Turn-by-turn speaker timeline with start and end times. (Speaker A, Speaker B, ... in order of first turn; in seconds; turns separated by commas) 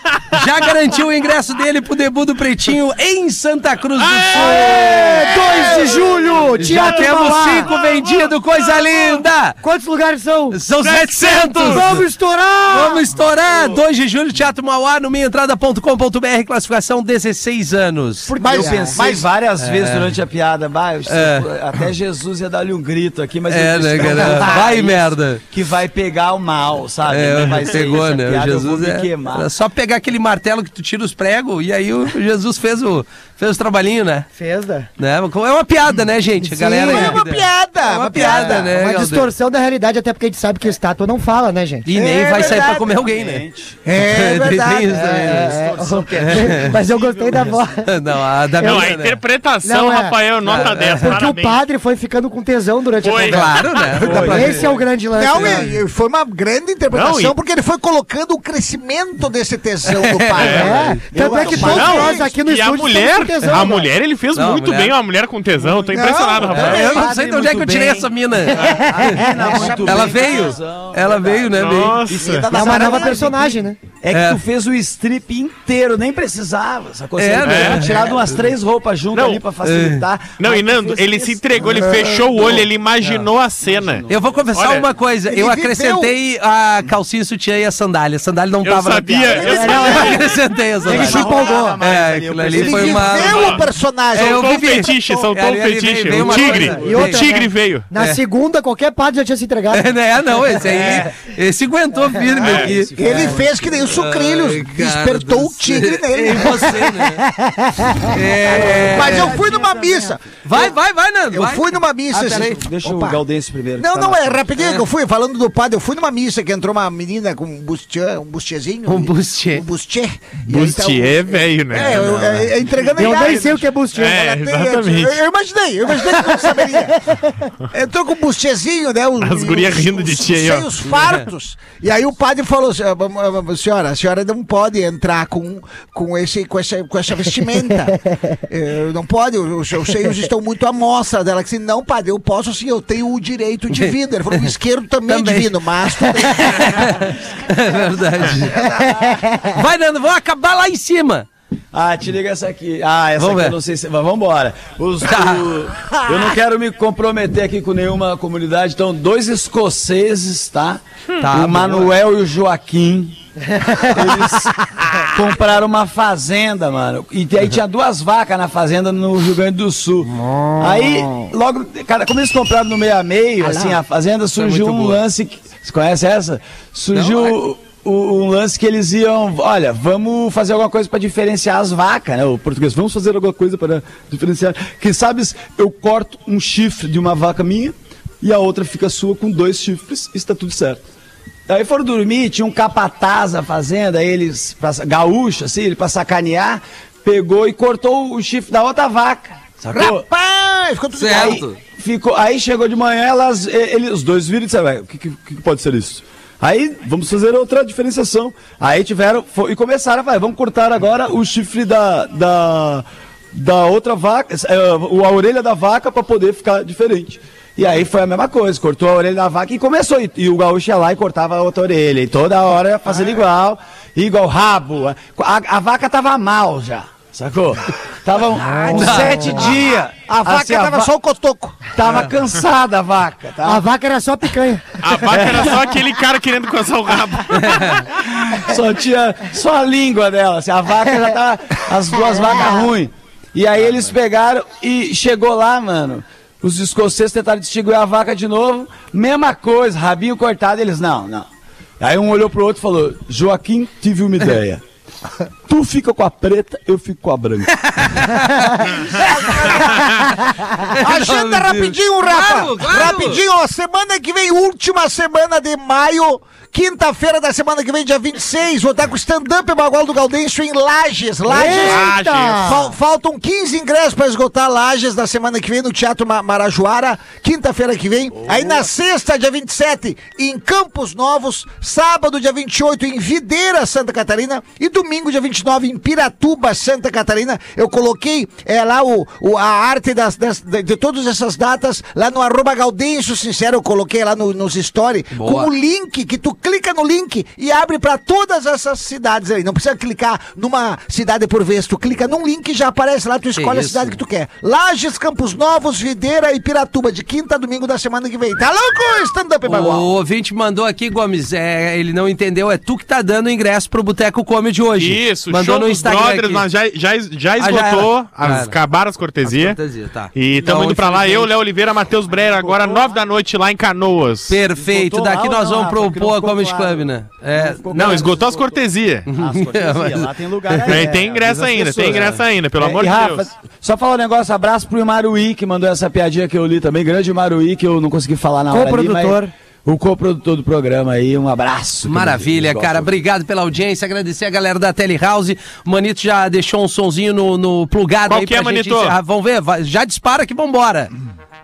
Speaker A: 0.3-5.1, Speaker B: 4.0-5.5, Speaker C: 4.3-7.7, Speaker A: 6.6-9.6, Speaker D: 6.8-7.3, Speaker C: 9.6-10.6, Speaker A: 10.5-12.1, Speaker B: 10.8-11.9, Speaker C: 11.6-13.1, Speaker A: 12.7-18.4, Speaker D: 18.4-29.5, Speaker C: 18.4-19.1, Speaker E: 18.4-18.7, Speaker A: 19.6-20.1, Speaker A: 21.1-21.5, Speaker A: 23.5-25.4, Speaker A: 27.1-34.3, Speaker C: 34.4-34.9, Speaker A: 35.0-39.3, Speaker C: 36.5-37.2, Speaker E: 36.6-38.7, Speaker C: 38.1-41.9, Speaker A: 41.9-43.4, Speaker E: 41.9-42.9, Speaker D: 42.3-43.8, Speaker E: 43.9-45.4, Speaker A: 44.0-45.6, Speaker C: 44.9-47.9, Speaker D: 45.3-47.7, Speaker A: 46.2-46.7, Speaker A: 47.9-49.2, Speaker C: 48.6-49.0, Speaker B: 48.6-51.6, Speaker C: 49.6-53.5, Speaker A: 50.5-51.2, Speaker B: 53.0-54.3, Speaker A: 53.2-54.7, Speaker D: 54.0-54.9, Speaker C: 54.2-55.8, Speaker E: 55.1-62.3, Speaker B: 56.9-57.4, Speaker A: 59.9-61.0, Speaker B: 60.4-60.8, Speaker C: 60.4-63.9, Speaker D: 61.1-62.0, Speaker B: 61.6-66.9, Speaker A: 64.3-65.0, Speaker E: 65.8-67.2, Speaker A: 66.5-72.2, Speaker D: 66.5-73.5, Speaker B: 68.5-68.8, Speaker C: 68.6-69.6, Speaker E: 69.4-70.5, Speaker B: 71.5-72.5, Speaker E: 72.2-73.6, Speaker C: 72.5-73.8, Speaker D: 74.0-84.5, Speaker A: 74.1-74.4, Speaker A: 77.2-78.3, Speaker B: 77.4-78.0, Speaker B: 79.1-79.4, Speaker A: 79.6-80.0, Speaker B: 80.4-84.9, Speaker A: 84.1-97.3, Speaker E: 85.3-86.1, Speaker B: 88.6-90.3, Speaker E: 89.3-90.1, Speaker C: 89.4-90.2, Speaker D: 90.8-93.5, Speaker C: 90.9-91.8, Speaker E: 90.9-91.6, Speaker E: 92.5-95.3, Speaker B: 93.2-97.9, Speaker C: 96.2-101.1, Speaker A: 99.7-107.3, Speaker B: 102.4-102.7, Speaker D: 102.4-103.7, Speaker E: 103.0-106.9, Speaker C: 107.2-110.1, Speaker A: 108.0-109.4, Speaker E: 108.8-110.8, Speaker A: 110.4-112.5, Speaker E: 111.3-113.2, Speaker D: 112.1-114.5, Speaker E: 113.8-127.0, Speaker A: 114.6-114.8, Speaker A: 118.9-119.6, Speaker B: 120.5-122.1, Speaker A: 121.8-123.0, Speaker C: 123.0-124.2, Speaker B: 123.9-125.2, Speaker C: 126.0-127.5, Speaker E: 127.7-147.1, Speaker B: 129.2-130.7, Speaker A: 130.8-131.2, Speaker C: 137.9-138.4, Speaker A: 143.8-144.5, Speaker A: 145.1-148.7, Speaker C: 148.6-149.6, Speaker A: 149.4-151.3, Speaker D: 151.7-163.2, Speaker A: 153.2-153.6, Speaker A: 155.0-155.5, Speaker A: 161.2-161.9, Speaker C: 163.5-164.2, Speaker D: 163.8-190.8, Speaker C: 170.2-171.3, Speaker A: 174.4-175.0, Speaker A: 176.9-177.4, Speaker D: 191.5-200.1, Speaker E: 199.7-201.4, Speaker A: 200.9-201.6, Speaker D: 201.1-230.9, Speaker A: 228.4-229.6, Speaker C: 228.7-229.3, Speaker E: 230.1-231.7, Speaker D: 231.7-233.6, Speaker C: 233.4-235.2, Speaker B: 234.8-238.0, Speaker D: 235.1-235.7, Speaker A: 237.3-237.9, Speaker D: 237.9-251.3, Speaker D: 251.8-254.6, Speaker D: 255.5-258.1, Speaker A: 257.6-258.7, Speaker E: 258.8-259.9, Speaker A: 260.7-263.2, Speaker E: 260.7-309.9, Speaker C: 271.3-272.7, Speaker B: 271.6-272.6, Speaker A: 295.1-295.5, Speaker A: 303.4-304.0, Speaker A: 309.4-316.5, Speaker B: 314.8-319.6, Speaker A: 317.4-318.6, Speaker A: 319.2-321.3, Speaker B: 320.1-324.4, Speaker D: 322.1-322.9, Speaker A: 324.3-327.6, Speaker D: 324.5-342.9, Speaker B: 327.7-329.1, Speaker A: 329.1-330.7, Speaker B: 330.7-333.2, Speaker C: 338.5-339.3, Speaker A: 341.9-350.9, Speaker B: 348.1-349.0